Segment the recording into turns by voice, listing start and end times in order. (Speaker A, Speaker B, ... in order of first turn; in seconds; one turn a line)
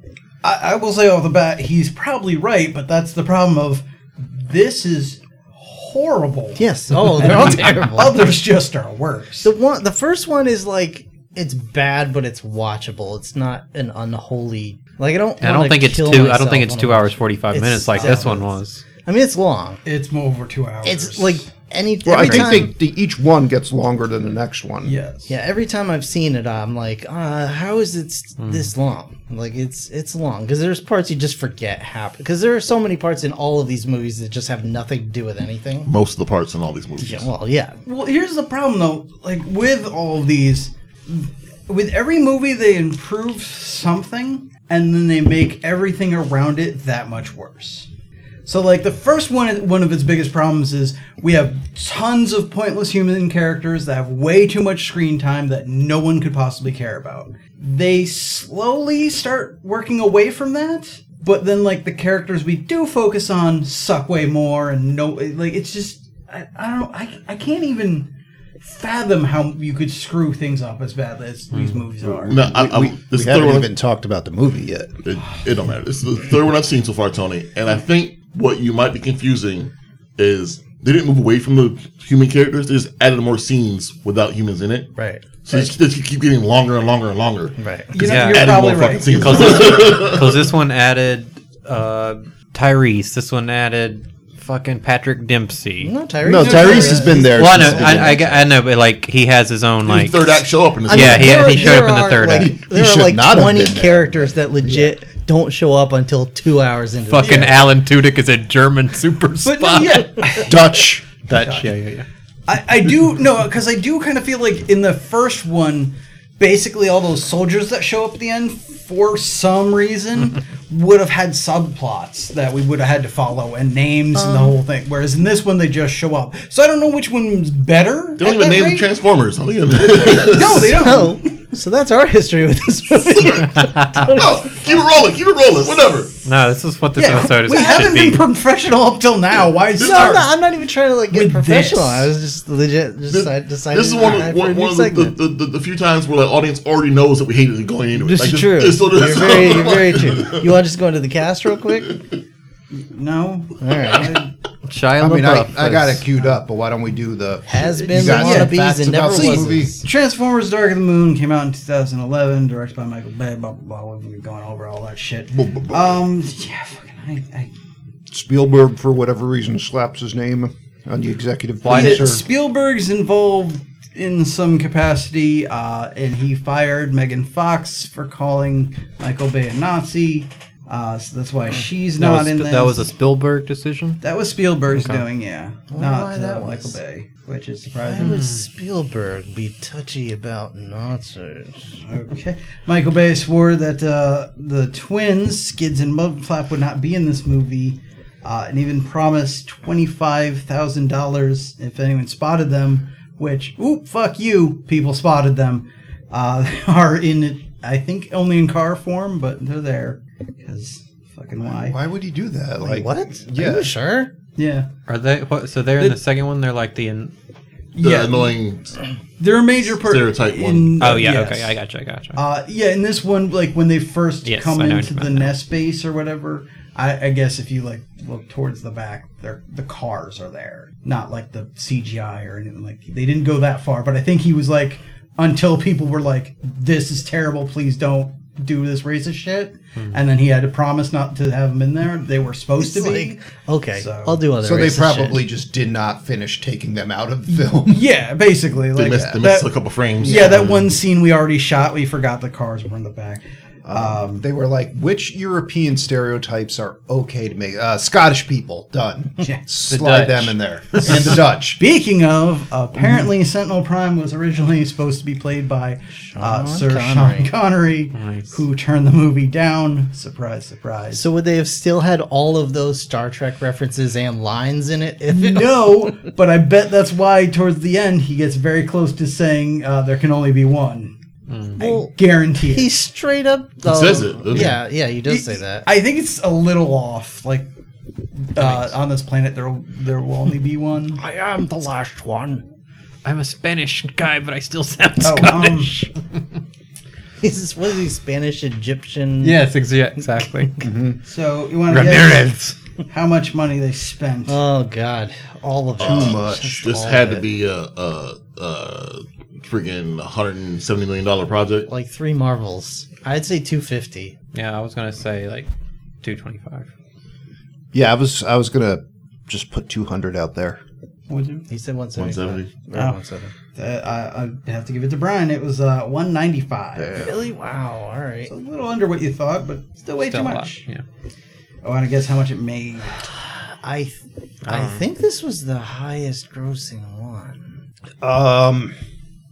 Speaker A: 0.4-9.5
Speaker B: 6.6-8.4
Speaker C: 6.9-7.9
Speaker B: 9.4-18.5
Speaker C: 15.4-18.8
Speaker A: 17.9-18.4
Speaker B: 19.0-19.8
Speaker A: 19.8-21.4
Speaker B: 20.8-22.7
Speaker D: 22.0-24.9
Speaker C: 22.2-22.6
Speaker A: 24.8-25.3
Speaker B: 25.3-35.9
Speaker C: 28.4-28.7
Speaker E: 35.8-37.3
Speaker B: 37.0-37.8
Speaker A: 37.8-47.9
Speaker A: 48.4-72.4
Speaker C: 71.5-71.8
Speaker E: 72.2-73.7
Speaker D: 72.3-75.0
Speaker E: 75.0-84.9
Speaker B: 84.9-85.2
Speaker E: 85.4-87.5
Speaker B: 87.6-87.9
Speaker A: 87.9-89.9
Speaker C: 88.0-95.9
Speaker E: 88.2-90.5
Speaker B: 95.8-98.3
Speaker D: 96.2-98.5
Speaker A: 96.3-97.4
Speaker C: 97.2-100.3
Speaker E: 99.8-101.5
Speaker B: 100.9-107.6
Speaker C: 100.9-102.6
Speaker A: 101.5-101.8
Speaker D: 102.3-104.9
Speaker C: 107.1-110.2
Speaker A: 107.2-107.6
Speaker A: 109.4-110.6
Speaker D: 110.4-111.7
Speaker A: 111.3-111.7
Speaker C: 111.4-112.0
Speaker A: 112.5-128.9
Speaker B: 124.1-124.5
Speaker E: 128.2-131.0
Speaker A: 130.0-131.3
Speaker B: 130.7-134.8
Speaker E: 133.1-133.4
Speaker C: 133.5-134.1
Speaker E: 134.0-136.1
Speaker C: 136.2-138.2
Speaker A: 136.9-140.3
Speaker B: 137.5-137.8
Speaker B: 139.8-145.1
Speaker A: 141.1-142.1
Speaker E: 143.1-150.5
Speaker B: 147.9-152.0
Speaker A: 152.7-154.3
Speaker B: 153.6-154.2
Speaker C: 154.7-156.0
Speaker D: 155.0-159.7
Speaker B: 157.5-159.9
Speaker A: 157.8-167.5
Speaker E: 165.3-166.0
Speaker D: 168.1-172.2
Speaker C: 171.6-172.2
Speaker A: 171.7-182.8
Speaker C: 182.0-184.0
Speaker A: 184.0-188.2
Speaker C: 184.7-185.0
Speaker B: 185.7-186.8
Speaker B: 187.9-191.8
Speaker C: 187.9-188.4
Speaker A: 191.8-211.8
Speaker D: 211.5-213.7
Speaker B: 212.6-214.1
Speaker A: 214.3-214.7
Speaker C: 214.9-217.1
Speaker A: 217.7-218.3
Speaker E: 217.8-218.7
Speaker A: 219.2-221.5
Speaker E: 219.8-221.0
Speaker C: 220.8-222.2
Speaker A: 222.1-243.2
Speaker C: 224.2-225.3
Speaker B: 242.6-245.2
Speaker A: 243.7-244.2
Speaker D: 244.4-247.8
Speaker A: 247.3-249.5
Speaker E: 248.7-250.5
Speaker D: 248.9-249.2
Speaker A: 250.0-254.2
Speaker D: 250.0-250.5
Speaker D: 253.7-261.6
Speaker C: 259.7-261.0
Speaker A: 260.8-271.0
Speaker B: 266.0-267.3
Speaker C: 267.9-268.3
Speaker B: 270.9-276.1
Speaker A: 275.1-280.9
Speaker C: 281.3-281.6
Speaker A: 281.5-282.7
Speaker B: 281.6-285.7
Speaker E: 283.6-284.6
Speaker A: 284.3-287.5
Speaker A: 288.3-291.0
Speaker C: 288.4-288.7
Speaker B: 291.0-292.4
Speaker C: 293.0-295.9
Speaker A: 295.0-295.7
Speaker B: 297.2-299.4
Speaker C: 299.2-300.6
Speaker D: 300.6-301.0
Speaker A: 301.1-302.3
Speaker C: 301.7-302.6
Speaker A: 302.9-304.4
Speaker B: 304.3-307.2
Speaker E: 305.8-311.7
Speaker D: 305.8-306.8
Speaker B: 311.7-314.1
Speaker C: 314.3-315.5
Speaker C: 316.0-316.7
Speaker D: 317.7-320.6
Speaker A: 321.1-321.5
Speaker B: 321.5-323.3
Speaker E: 321.9-322.5
Speaker A: 322.7-323.0
Speaker A: 323.5-327.1
Speaker D: 326.8-327.1
Speaker B: 327.0-328.3
Speaker A: 328.3-330.6
Speaker C: 330.0-330.8
Speaker A: 331.6-333.0
Speaker B: 333.3-337.6
Speaker C: 334.5-334.8
Speaker D: 338.0-338.7